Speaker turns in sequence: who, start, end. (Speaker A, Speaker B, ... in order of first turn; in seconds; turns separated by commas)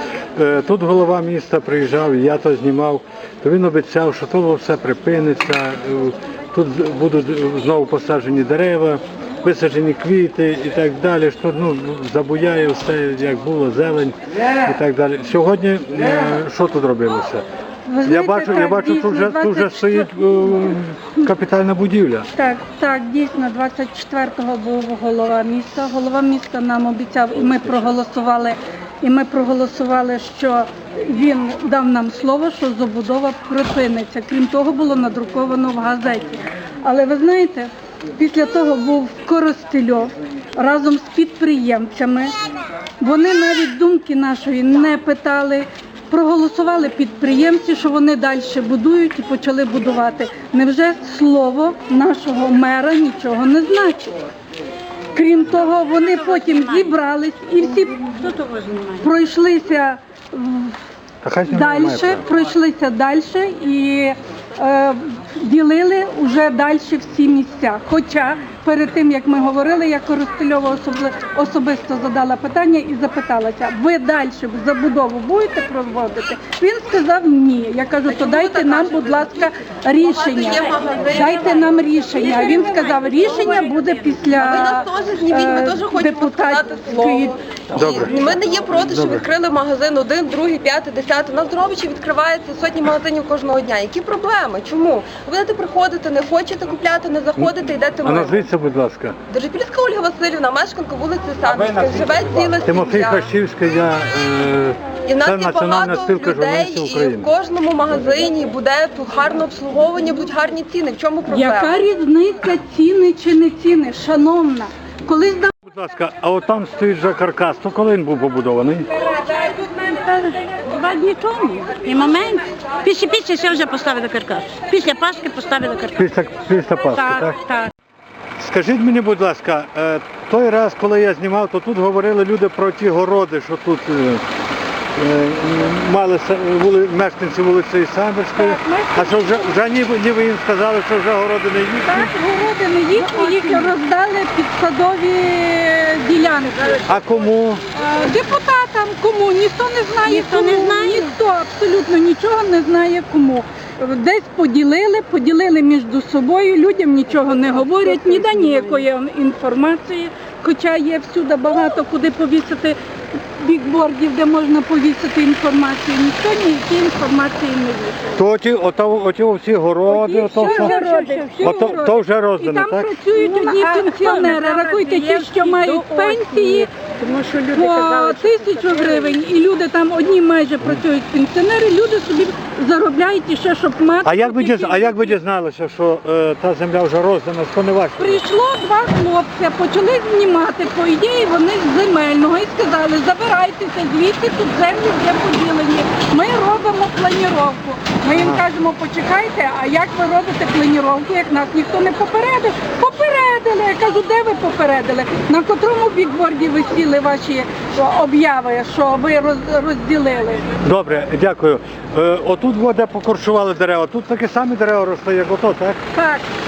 Speaker A: 0.3-17.4, Speaker B: 17.9-20.7, Speaker A: 18.0-22.3, Speaker B: 22.4-42.4, Speaker B: 43.0-54.2, Speaker B: 55.1-58.0, Speaker C: 56.0-57.0, Speaker C: 58.0-59.1, Speaker B: 59.0-60.8, Speaker A: 61.2-62.2, Speaker B: 61.5-87.4, Speaker D: 78.1-79.3, Speaker D: 80.0-81.9, Speaker C: 82.0-84.6, Speaker D: 84.4-98.5, Speaker A: 87.7-89.2, Speaker A: 98.0-99.2, Speaker D: 99.3-103.3, Speaker A: 101.5-107.3, Speaker D: 105.1-111.8, Speaker B: 111.3-115.5, Speaker A: 115.7-118.9, Speaker C: 119.1-126.0, Speaker A: 125.9-127.4, Speaker C: 126.8-127.7, Speaker A: 128.4-134.2, Speaker A: 134.9-142.1, Speaker B: 138.4-139.4, Speaker B: 141.8-146.9, Speaker C: 142.9-143.7, Speaker A: 146.8-147.6, Speaker B: 147.7-162.8, Speaker C: 150.0-151.2, Speaker C: 157.4-158.8, Speaker B: 163.4-168.2, Speaker A: 168.2-170.7, Speaker C: 169.9-171.9, Speaker B: 170.2-176.7, Speaker A: 171.4-172.9, Speaker C: 173.1-179.2, Speaker B: 177.5-185.2, Speaker A: 184.0-188.2, Speaker B: 188.0-210.5, Speaker A: 198.1-198.4, Speaker A: 210.6-215.8, Speaker B: 215.9-216.3